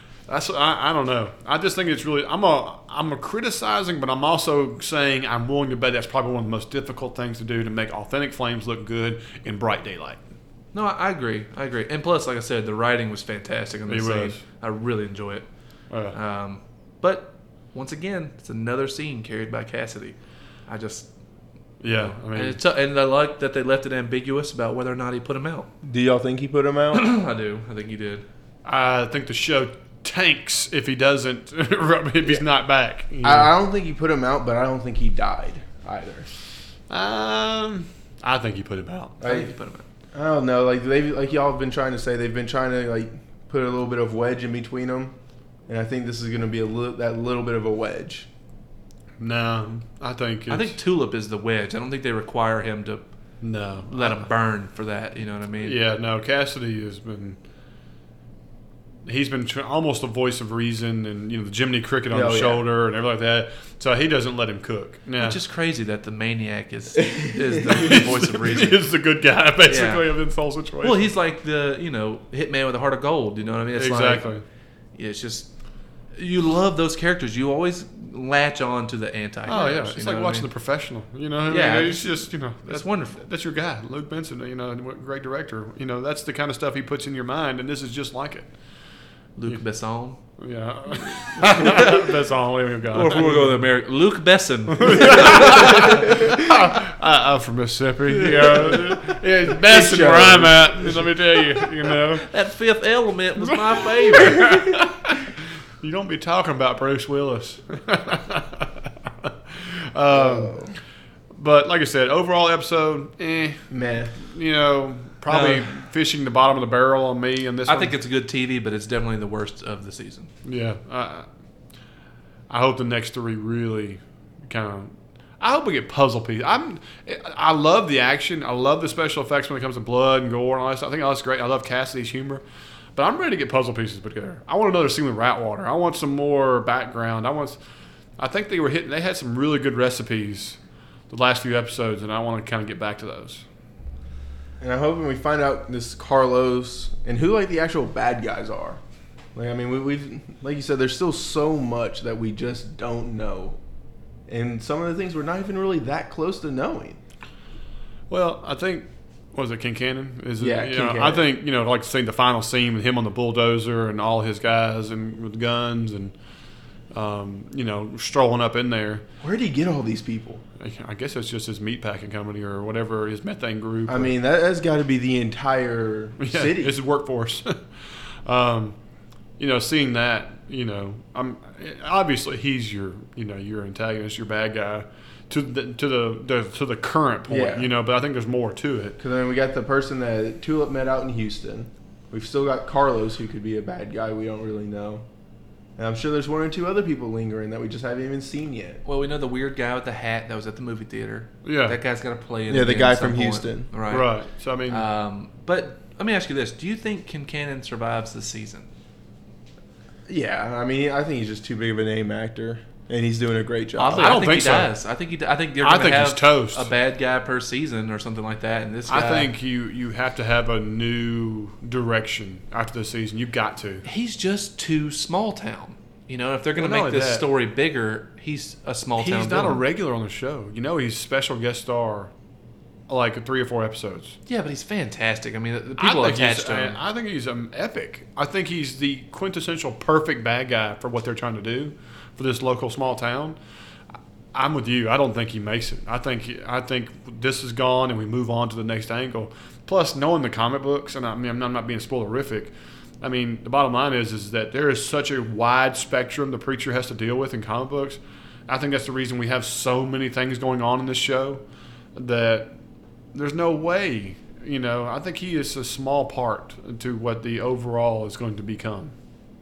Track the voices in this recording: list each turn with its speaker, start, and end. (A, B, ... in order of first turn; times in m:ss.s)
0:00.3-0:10.2 A
0:10.7-0:15.5 B
0:13.9-0:14.4 A
0:15.9-0:16.2 A
0:16.1-0:21.1 B
0:21.8-0:22.6 A
0:22.3-0:25.7 B
0:25.8-0:27.1 C
0:26.9-0:28.3 B
0:28.6-0:33.5 A
0:33.2-0:36.3 C
0:36.9-0:39.2 A
0:39.2-0:39.5 C
0:39.2-0:39.8 B
0:40.1-0:45.2 C
0:45.7-0:48.3 C
0:49.2-0:50.8 A
0:50.5-0:53.1 B
0:53.4-0:54.3 A
0:53.9-0:55.8 B
0:55.6-0:57.4 A
0:59.1-1:05.4 A
1:02.1-1:02.6 C
1:05.2-1:08.8 B
1:07.7-1:11.1 A
1:09.6-1:10.0 B
1:10.8-1:14.3 B
1:13.8-1:14.4 A
1:15.0-1:15.5 B
1:16.2-1:20.5 B
1:19.5-1:28.5 A
1:21.5-1:23.2 B
1:29.4-1:30.2 B
1:30.4-1:33.6 A
1:31.4-1:32.1 B
1:32.9-1:36.2 B
1:34.7-1:42.3 A
1:35.9-1:36.4 C
1:38.3-1:41.7 C
1:42.2-1:44.7 B
1:43.4-1:45.3 A
1:45.8-1:50.6 A
1:50.1-1:50.8 C
1:51.3-1:57.9 A
1:53.7-1:54.2 C
1:55.3-1:55.7 B
1:57.7-2:00.3 B
2:00.4-2:01.3 A
2:02.5-2:12.4 A
2:13.0-2:17.6 A
2:18.2-2:20.6 A
2:21.1-2:23.4 A
2:24.6-2:28.8 C
2:29.4-2:33.6 C
2:34.3-2:37.0 C
2:38.1-2:46.1 A
2:40.4-2:41.3 C
2:46.9-2:49.0 A
2:49.2-2:50.4 C
2:50.6-2:54.1 A
2:53.9-2:56.8 C
2:56.2-2:57.6 A
2:58.2-2:58.8 A
2:59.4-3:09.0 A
3:07.3-3:07.7 C
3:09.0-3:15.0 C
3:15.8-3:18.8 C
3:18.8-3:24.1 B
3:21.4-3:21.8 A
3:22.5-3:23.7 C
3:23.9-3:24.8 A
3:24.7-3:28.7 B
3:30.1-3:34.2 C
3:33.8-3:39.3 B
3:33.9-3:34.7 A
3:35.6-3:36.7 A
3:38.9-3:43.8 A
3:43.8-3:49.6 B
3:46.6-3:47.3 A
3:49.0-3:52.1 A
3:52.9-3:54.2 A
3:54.3-3:56.8 B
3:55.8-4:03.4 A
4:04.3-4:21.4 A
4:22.0-4:22.5 A
4:23.1-4:28.9 A